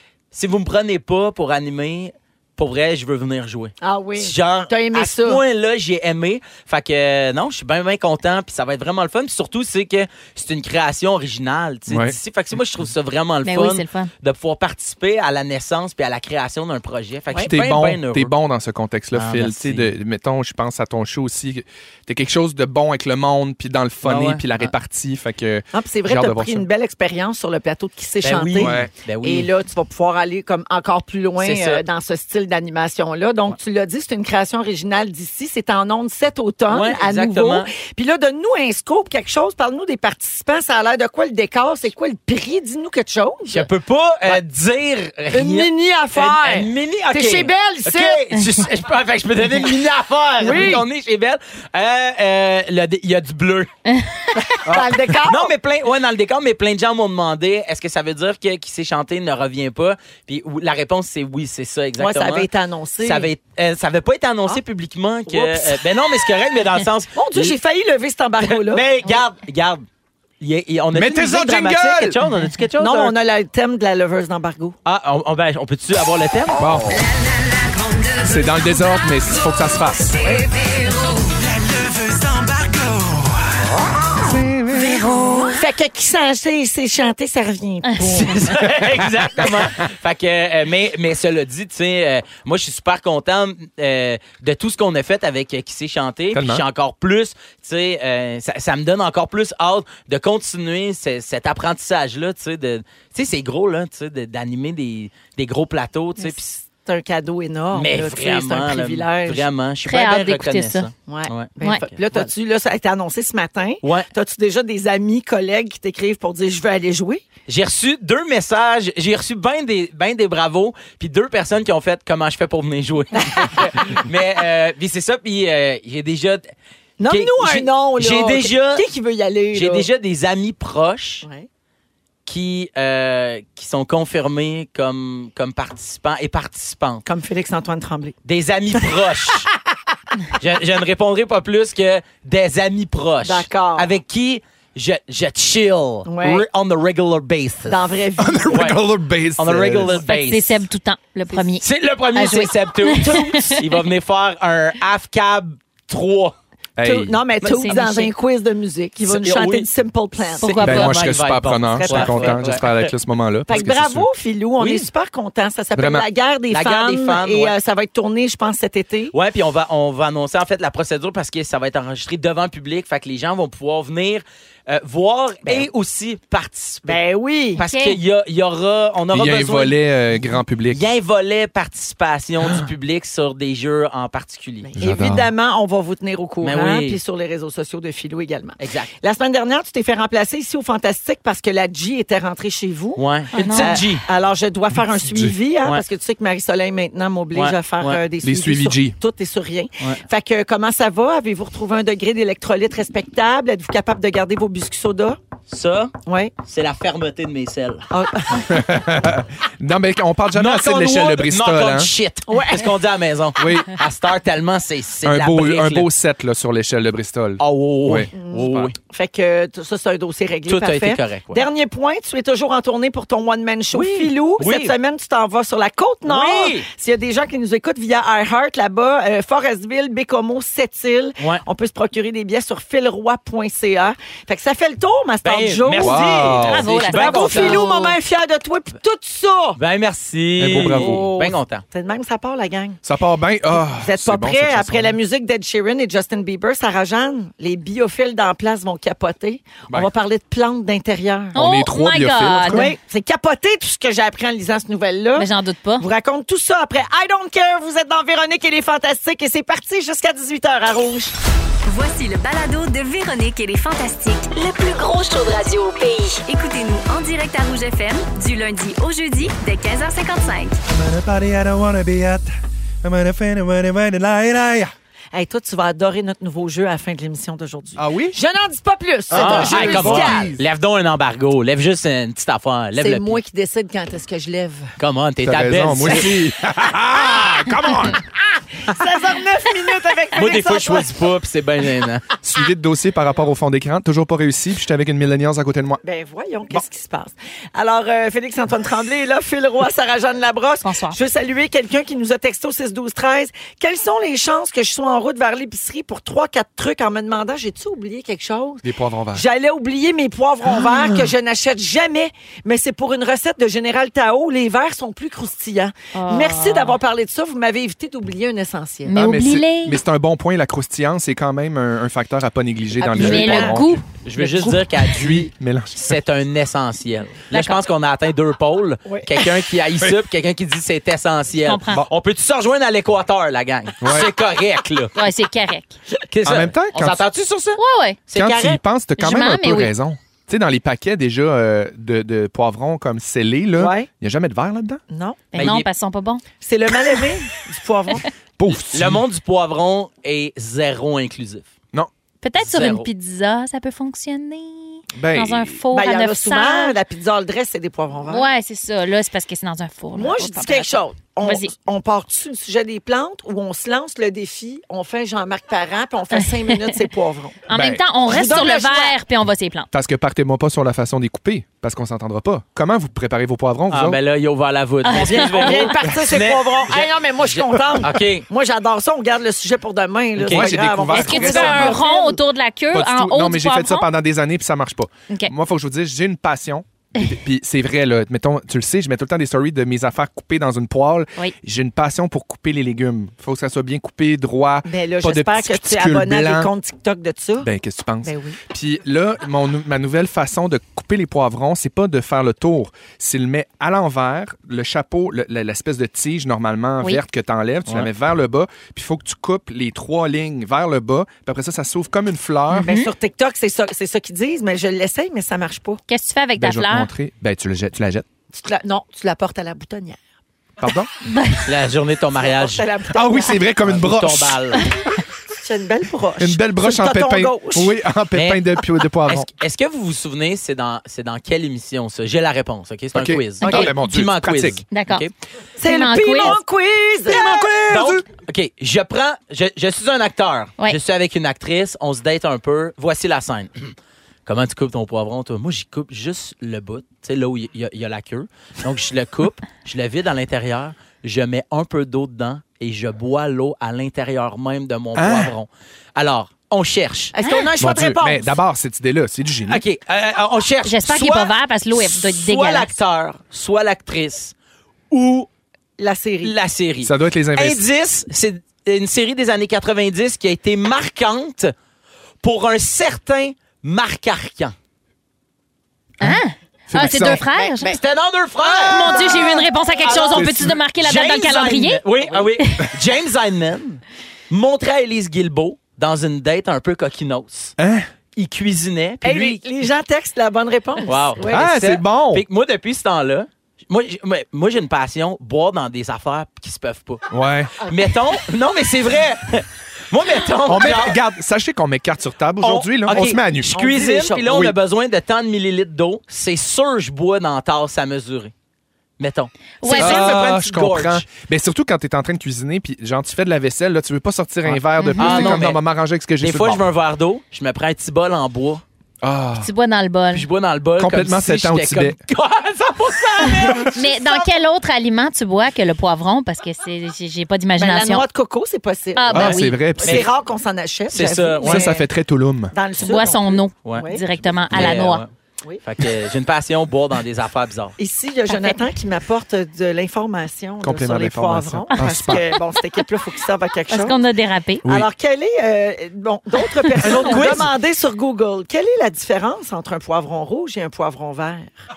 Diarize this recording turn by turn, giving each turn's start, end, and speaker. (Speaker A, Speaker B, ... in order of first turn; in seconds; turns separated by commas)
Speaker A: 0.3-18.3, Speaker B: 3.8-5.4, Speaker C: 11.9-12.2, Speaker D: 13.5-14.1, Speaker C: 17.5-26.7, Speaker A: 19.1-19.9, Speaker A: 24.0-24.7, Speaker B: 25.7-43.7, Speaker A: 28.2-29.5, Speaker C: 28.6-28.9, Speaker A: 31.4-31.8, Speaker A: 36.7-37.7, Speaker A: 43.5-53.7, Speaker B: 45.3-48.2, Speaker D: 48.4-48.6, Speaker B: 50.4-50.8, Speaker D: 53.9-54.2, Speaker B: 54.4-55.5, Speaker A: 54.7-62.5, Speaker B: 62.0-63.3, Speaker A: 63.0-67.5, Speaker B: 65.3-65.8, Speaker B: 67.2-68.9, Speaker A: 68.5-69.8, Speaker A: 70.4-73.1, Speaker C: 70.9-72.2, Speaker B: 72.8-74.8, Speaker A: 74.8-76.7, Speaker C: 76.6-77.0, Speaker C: 78.2-80.2, Speaker A: 82.2-82.8, Speaker C: 84.2-85.4, Speaker B: 85.3-88.5, Speaker D: 87.8-88.3, Speaker A: 88.2-106.5, Speaker C: 88.7-89.7, Speaker C: 96.3-96.6, Speaker B: 106.2-109.5, Speaker A: 107.7-112.3, Speaker D: 109.8-110.9, Speaker B: 111.1-117.2, Speaker A: 113.8-114.1, Speaker A: 117.5-126.5, Speaker B: 123.2-123.6, Speaker B: 127.0-129.9, Speaker A: 127.1-128.9, Speaker A: 129.5-131.3, Speaker A: 132.3-137.0, Speaker B: 137.1-138.2, Speaker A: 138.2-139.5, Speaker A: 140.4-147.8, Speaker B: 143.2-143.9, Speaker B: 146.1-146.5, Speaker B: 147.7-148.8, Speaker C: 148.2-150.0, Speaker A: 148.5-150.7, Speaker D: 149.9-153.7, Speaker A: 151.6-156.3, Speaker C: 156.8-157.2, Speaker B: 156.8-160.5, Speaker A: 157.4-157.8, Speaker D: 157.4-158.1, Speaker A: 159.1-159.7, Speaker D: 160.4-161.2, Speaker A: 160.4-162.9, Speaker C: 160.6-164.1, Speaker B: 161.7-162.6, Speaker B: 163.5-169.1, Speaker A: 164.6-164.9, Speaker C: 165.8-166.1, Speaker A: 166.5-167.6, Speaker A: 169.1-177.0, Speaker B: 176.8-177.6, Speaker A: 177.6-179.8, Speaker D: 177.6-178.0, Speaker C: 179.1-180.8, Speaker A: 180.7-184.7, Speaker B: 184.6-205.2, Speaker C: 184.8-185.3, Speaker A: 186.4-187.0, Speaker A: 188.6-188.9, Speaker A: 193.0-194.1, Speaker D: 193.3-193.7, Speaker C: 194.9-195.3, Speaker A: 197.3-198.0, Speaker C: 198.2-199.0, Speaker A: 205.5-207.9, Speaker B: 206.1-206.3, Speaker B: 207.9-208.6, Speaker C: 208.4-211.9, Speaker A: 210.3-215.9, Speaker B: 212.3-212.8, Speaker C: 213.4-213.8, Speaker C: 215.0-218.7, Speaker A: 217.4-218.8, Speaker B: 218.1-239.6, Speaker A: 220.5-221.4, Speaker A: 223.7-224.7, Speaker A: 226.1-226.7, Speaker A: 235.2-237.7, Speaker C: 235.8-236.7, Speaker D: 236.4-238.0, Speaker A: 239.6-241.6, Speaker C: 240.4-241.0, Speaker B: 240.5-242.8, Speaker C: 242.8-245.0, Speaker B: 243.6-251.4, Speaker C: 251.3-252.8, Speaker D: 251.4-252.7, Speaker B: 252.5-261.1, Speaker D: 255.2-255.9, Speaker E: 261.7-270.6, Speaker C: 270.7-272.3, Speaker C: 272.8-274.7, Speaker B: 275.1-280.3, Speaker C: 277.8-278.2, Speaker C: 279.1-280.4, Speaker A: 279.1-283.2, Speaker B: 282.8-284.7, Speaker A: 284.8-286.2, Speaker C: 285.2-288.0, Speaker B: 288.6-290.9, Speaker A: 290.1-292.1, Speaker C: 292.2-295.8, Speaker B: 295.8-318.9, Speaker D: 300.6-301.0, Speaker C: 308.6-309.2, Speaker D: 315.9-316.8, Speaker D: 318.9-319.8, Speaker C: 318.9-323.8, Speaker B: 322.8-323.6, Speaker D: 322.9-324.9, Speaker A: 324.0-335.0, Speaker C: 324.9-326.0, Speaker D: 327.3-327.6, Speaker D: 331.4-331.9, Speaker C: 333.8-334.1, Speaker D: 335.0-335.8, Speaker A: 336.0-338.6, Speaker C: 336.2-337.0, Speaker D: 337.6-338.0, Speaker C: 338.1-344.8, Speaker D: 339.0-339.7, Speaker B: 343.6-343.9, Speaker B: 344.9-345.2, Speaker D: 345.3-346.2, Speaker A: 345.4-345.7, Speaker B: 346.4-348.1, Speaker C: 348.4-349.0, Speaker A: 348.5-351.5, Speaker D: 352.2-356.8, Speaker A: 352.4-352.9, Speaker C: 354.9-355.6, Speaker B: 355.7-358.3, Speaker D: 358.1-361.5, Speaker B: 359.9-367.4, Speaker D: 366.2-366.8, Speaker C: 367.5-367.8, Speaker D: 367.5-369.7, Speaker B: 368.1-369.0, Speaker C: 369.7-374.0, Speaker A: 373.7-378.2, Speaker D: 374.9-375.7, Speaker B: 374.9-382.2, Speaker A: 380.2-380.5, Speaker C: 380.2-381.8, Speaker D: 380.9-383.9, Speaker C: 382.7-396.5, Speaker B: 394.7-397.5, Speaker C: 397.4-412.7, Speaker B: 398.0-398.4, Speaker D: 412.5-412.9, Speaker B: 412.6-415.8, Speaker D: 415.9-416.9, Speaker C: 416.4-418.1, Speaker B: 418.3-420.0, Speaker C: 420.6-420.9, Speaker D: 421.1-421.4, Speaker A: 421.4-422.7, Speaker B: 422.2-423.4, Speaker C: 422.9-424.6, Speaker A: 423.6-424.7, Speaker B: 425.3-427.8, Speaker C: 426.2-429.3, Speaker A: 428.1-428.5, Speaker A: 429.1-435.1, Speaker C: 432.9-434.6, Speaker D: 433.4-433.7, Speaker D: 434.7-435.1, Speaker B: 435.6-437.3, Speaker D: 435.6-436.4, Speaker C: 437.1-438.0, Speaker A: 437.7-443.7, Speaker A: 444.3-457.1, Speaker C: 455.0-455.3, Speaker B: 457.1-458.4, Speaker D: 457.2-457.5, Speaker C: 457.6-459.6, Speaker A: 459.5-464.3, Speaker D: 460.6-462.7, Speaker A: 464.9-465.3, Speaker B: 465.8-466.3, Speaker A: 466.2-471.5, Speaker C: 466.8-467.6, Speaker A: 472.2-474.5, Speaker C: 476.0-477.2, Speaker D: 476.0-477.8, Speaker A: 477.3-487.6, Speaker B: 478.4-480.1, Speaker D: 478.7-481.8, Speaker C: 480.1-480.6, Speaker D: 482.4-482.7, Speaker C: 487.6-487.9, Speaker A: 488.2-489.4, Speaker B: 489.0-491.4, Speaker A: 490.9-501.0, Speaker C: 491.3-492.2, Speaker C: 497.1-497.6, Speaker C: 500.5-503.6, Speaker A: 502.4-508.3, Speaker B: 502.9-504.5, Speaker C: 504.3-504.5, Speaker A: 509.0-511.1, Speaker D: 509.6-510.2, Speaker C: 509.7-516.6, Speaker A: 514.5-515.6, Speaker D: 514.8-515.4, Speaker A: 516.2-518.6, Speaker C: 519.0-519.5, Speaker D: 519.4-520.3, Speaker A: 520.1-524.2, Speaker C: 520.8-522.0, Speaker D: 523.7-528.0, Speaker B: 527.6-531.9, Speaker D: 529.0-529.6, Speaker C: 529.1-530.1, Speaker A: 530.9-531.7, Speaker C: 531.4-532.5, Speaker B: 532.5-534.0, Speaker D: 532.8-535.0, Speaker A: 533.6-535.1, Speaker A: 535.6-537.8, Speaker B: 537.8-544.0, Speaker D: 538.3-538.6, Speaker C: 540.6-542.2, Speaker D: 541.8-542.4, Speaker D: 543.7-544.6, Speaker B: 544.6-551.5, Speaker D: 546.8-547.4, Speaker C: 546.8-547.5, Speaker A: 546.9-547.4